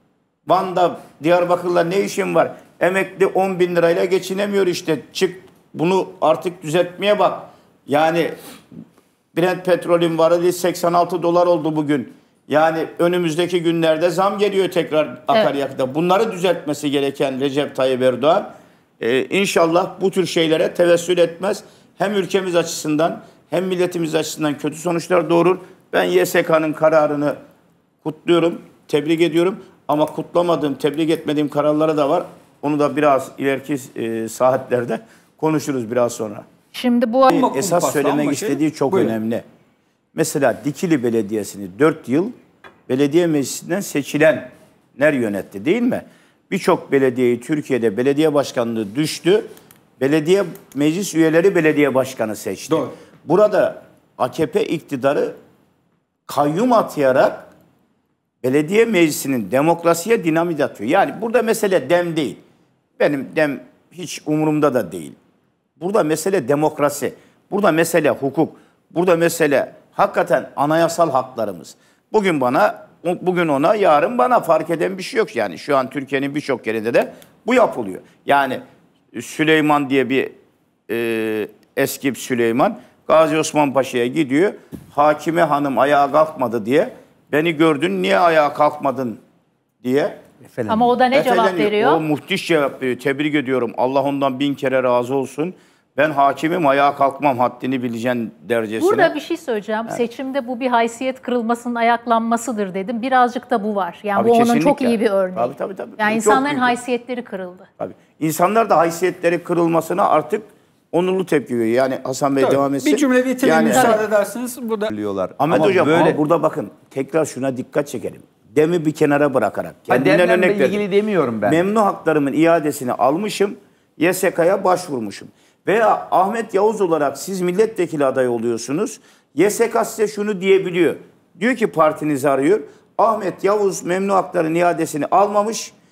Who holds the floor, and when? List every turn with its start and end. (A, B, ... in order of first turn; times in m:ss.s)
0:00.5-0:08.4 A
0:09.3-0:27.4 A
0:28.0-0:36.4 A
0:36.7-0:37.4 B
0:37.3-0:39.1 C
0:37.3-0:39.4 A
0:40.1-0:42.3 A
0:42.9-0:49.5 A
0:50.0-0:55.4 A
0:56.3-0:57.5 A
0:58.4-1:02.4 A
1:03.0-1:05.2 A
1:05.8-1:18.6 A
1:19.1-1:20.3 A
1:20.9-1:29.2 A
1:29.8-1:30.2 A
1:30.4-1:30.9 D
1:30.7-1:32.0 B
1:31.1-1:39.1 A
1:38.8-1:47.7 B
1:44.2-1:46.7 A
1:47.8-1:54.0 A
1:52.4-1:54.9 C
1:54.9-1:56.2 D
1:55.4-2:00.8 A
1:59.9-2:01.6 D
2:01.4-2:15.7 A